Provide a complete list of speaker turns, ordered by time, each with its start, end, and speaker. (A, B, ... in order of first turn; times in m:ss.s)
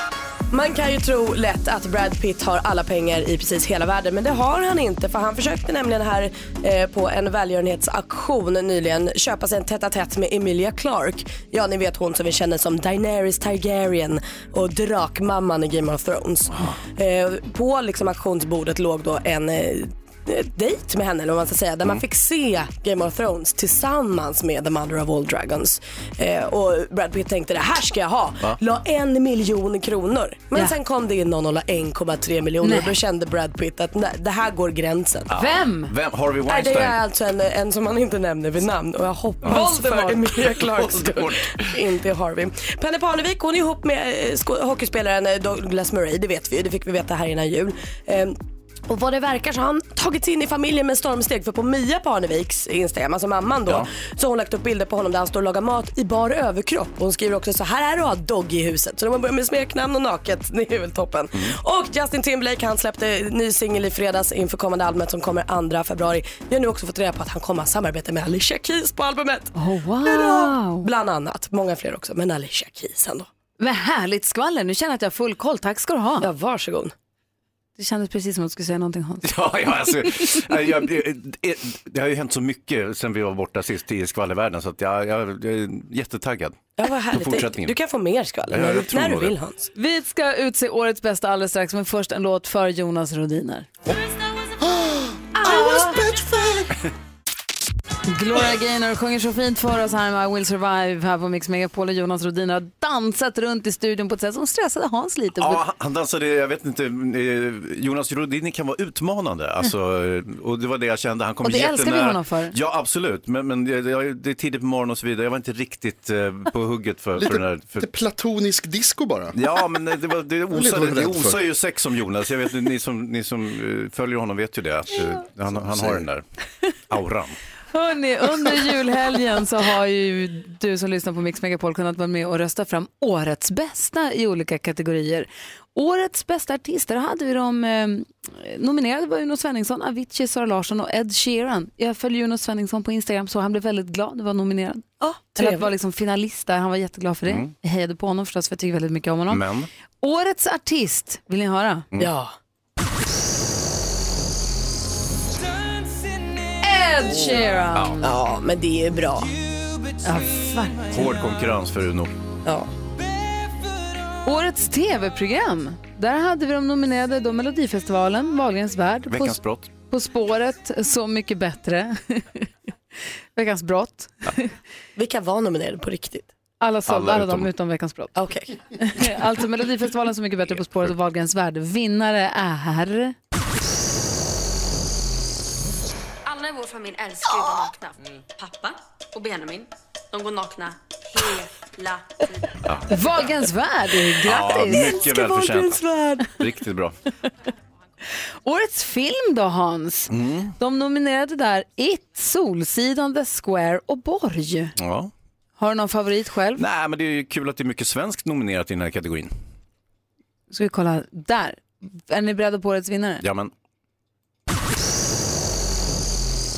0:00.5-0:35.3 A
0:16.5-0:16.8 B
0:32.6-0:33.0 C
0:35.3-0:37.0 B
0:35.3-0:35.9 C
0:36.5-1:13.3 A
0:39.4-0:40.2 C
0:40.3-0:41.8 B
1:09.5-1:10.9 C
1:13.6-1:16.3 C
1:16.2-1:16.9 A
1:17.8-1:19.3 C
1:19.2-1:26.6 B
1:19.9-1:20.4 C
1:26.8-1:29.7 A
1:27.1-1:27.8 B
1:28.5-1:29.3 B
1:29.8-1:33.7 C
1:34.8-1:36.7 D
1:35.4-1:36.0 C
1:38.1-1:45.6 C
1:45.4-1:57.9 B
1:51.4-1:52.5 C
1:57.2-1:59.4 D
1:59.4-2:06.2 B
2:00.5-2:01.4 D
2:05.5-2:06.0 D
2:06.9-2:07.4 B
2:07.7-2:29.4 C
2:25.4-2:25.7 A
2:27.3-2:27.5 B
2:29.3-2:29.7 B
2:30.0-2:31.8 C
2:32.0-2:32.3 A
2:36.6-2:38.1 C
2:37.7-2:38.0 B
2:38.0-2:39.3 A
2:40.0-2:40.9 C
2:40.9-2:42.1 B
2:44.2-2:49.4 C
2:49.1-2:49.7 B
2:49.9-2:52.5 C
2:53.4-2:54.5 C
2:55.0-2:56.3 A
2:56.6-2:58.1 C
2:56.9-2:57.5 B
2:58.2-2:58.6 A
2:58.7-3:03.1 C
3:06.2-3:12.2 E
3:12.6-3:12.9 B
3:12.9-3:16.4 C
3:14.2-3:16.9 B
3:18.4-3:24.7 C
3:20.1-3:20.5 B
3:24.8-3:25.1 B
3:25.6-3:26.6 C
3:26.6-3:29.3 B
3:30.5-3:33.2 C
3:33.2-3:33.5 B